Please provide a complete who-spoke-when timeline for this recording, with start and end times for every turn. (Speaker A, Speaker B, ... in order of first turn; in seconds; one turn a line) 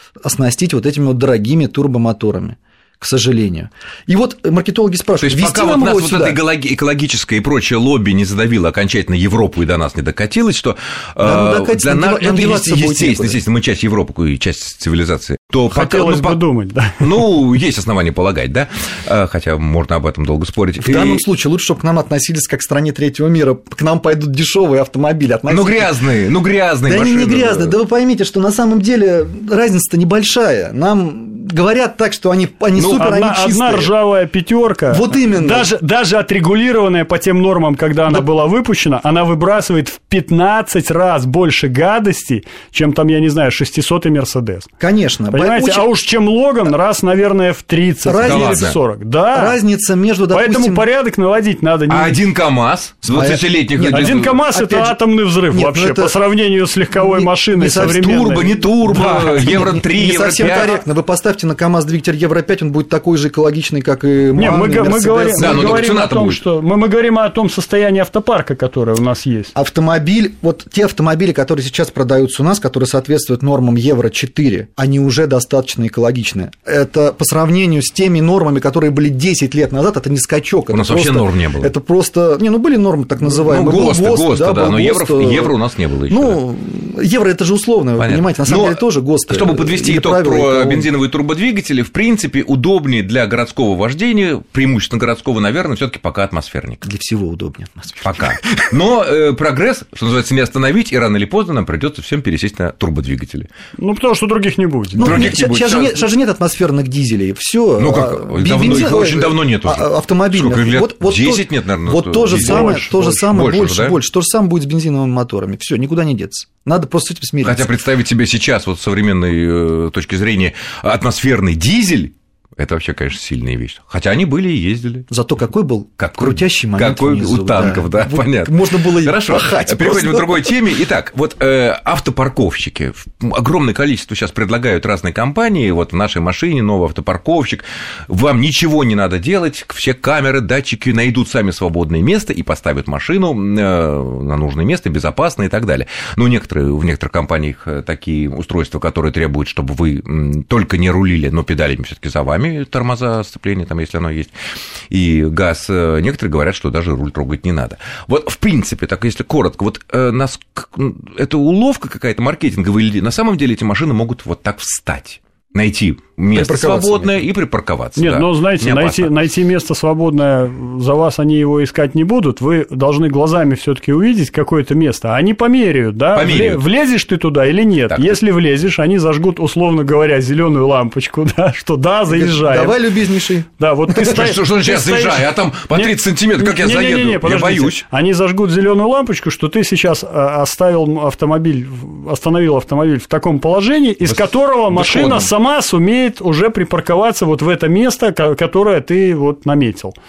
Speaker A: 0.2-6.4
Speaker B: 5.2-16.4
Speaker A: 11.2-13.4
Speaker C: 15.7-17.1
Speaker B: 17.0-21.2
Speaker A: 20.8-26.0
Speaker B: 25.5-27.7
Speaker A: 26.9-33.9
Speaker B: 32.7-33.0
Speaker C: 32.9-44.7
Speaker A: 34.9-35.7
Speaker A: 44.8-45.9
Speaker C: 45.3-49.6
Speaker A: 48.0-48.8
Speaker B: 48.2-48.8
Speaker A: 49.3-50.9
Speaker C: 50.3-52.2
Speaker B: 51.9-54.4
Speaker A: 53.1-55.0
Speaker C: 53.8-58.5
Speaker A: 55.5-56.1
Speaker A: 56.9-66.0
Speaker B: 57.8-60.8
Speaker C: 64.3-69.5
Speaker B: 65.3-66.4
Speaker A: 69.5-85.6
Speaker B: 80.7-81.7
Speaker B: 83.2-86.4
Speaker A: 86.1-90.9
Speaker B: 88.0-96.8
Speaker A: 96.8-98.3
Speaker B: 98.0-103.5
Speaker C: 103.8-105.3
Speaker A: 104.9-117.7
Speaker B: 105.0-106.1
Speaker B: 107.8-114.0
Speaker C: 112.3-113.2
Speaker B: 117.4-125.1
Speaker A: 125.1-130.5
Speaker B: 126.0-154.3
Speaker B: 154.9-169.1
Speaker A: 166.3-167.2
Speaker C: 167.9-182.9
Speaker B: 176.1-176.6
Speaker B: 177.9-178.2
Speaker A: 182.1-183.5
Speaker C: 183.6-199.9
Speaker B: 183.9-187.8
Speaker B: 194.0-195.3